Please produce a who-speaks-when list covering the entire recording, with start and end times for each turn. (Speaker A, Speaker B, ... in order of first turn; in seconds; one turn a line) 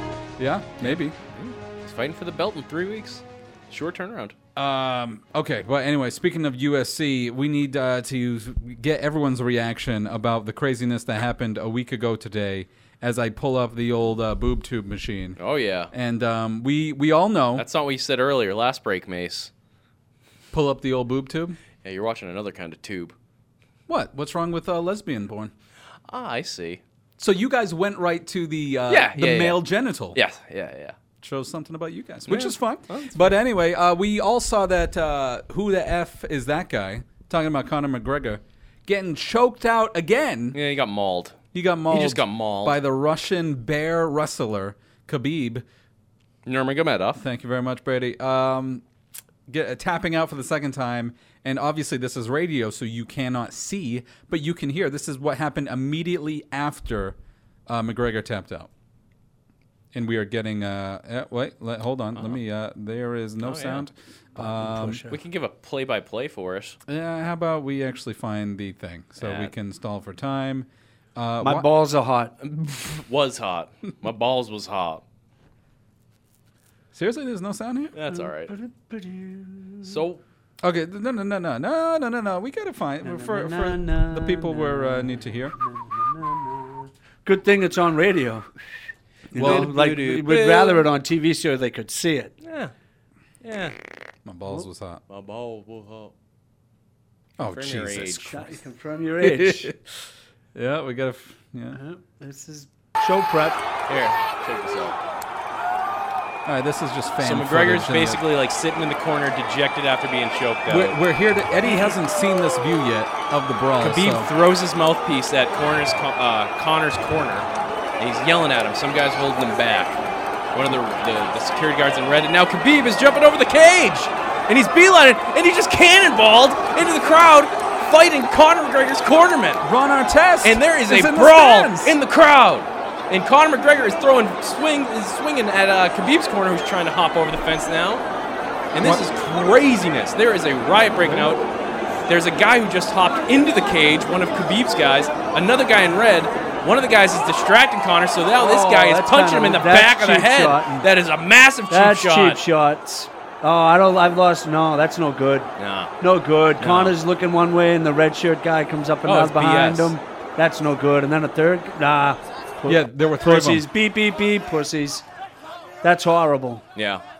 Speaker A: 0.4-1.1
Speaker B: 0.8-4.3
Speaker A: 4.5-15.4
Speaker B: 15.4-15.9
Speaker A: 15.9-17.6
Speaker B: 17.6-19.5
Speaker A: 20.5-21.6
Speaker B: 21.8-23.1
Speaker A: 23.9-25.5
Speaker B: 26.1-26.8
Speaker A: 27.2-30.2
Speaker B: 28.9-29.6
Speaker B: 30.1-30.9
Speaker A: 31.2-40.6
Speaker B: 32.3-33.4
Speaker B: 40.5-42.8
Speaker A: 41.5-45.6
Speaker B: 46.5-47.2
Speaker A: 47.1-48.8
Speaker A: 49.5-58.7
Speaker A: 59.9-65.0
Speaker B: 63.4-63.8
Speaker C: 64.4-65.2
Speaker B: 65.1-66.8
Speaker A: 66.9-71.7
Speaker B: 69.2-69.5
Speaker C: 71.4-72.3
Speaker B: 72.4-75.0
Speaker A: 76.9-77.9
Speaker B: 77.9-78.5
Speaker C: 78.1-79.9
Speaker B: 79.8-80.2
Speaker A: 80.6-85.5
Speaker C: 83.0-88.5
Speaker C: 89.3-92.3
Speaker A: 89.3-89.7
Speaker B: 89.3-90.9
Speaker B: 92.4-92.7
Speaker B: 93.4-93.7
Speaker A: 94.2-95.0
Speaker B: 95.1-96.1
Speaker A: 97.4-98.5
Speaker B: 97.5-98.4
Speaker C: 98.3-99.7
Speaker A: 99.2-99.8
Speaker A: 100.5-101.8
Speaker C: 101.7-103.6
Speaker B: 103.9-105.0
Speaker A: 106.5-108.2
Speaker B: 107.2-111.0
Speaker A: 110.7-114.3
Speaker B: 113.8-120.0
Speaker B: 120.5-129.6
Speaker A: 129.6-132.0
Speaker B: 130.4-138.0
Speaker B: 138.7-141.4
Speaker B: 142.1-152.4
Speaker C: 148.4-150.8
Speaker C: 151.7-165.1
Speaker B: 155.6-155.9
Speaker B: 156.6-156.9
Speaker B: 159.0-159.9
Speaker A: 162.6-163.7
Speaker C: 165.8-166.6
Speaker B: 166.7-167.0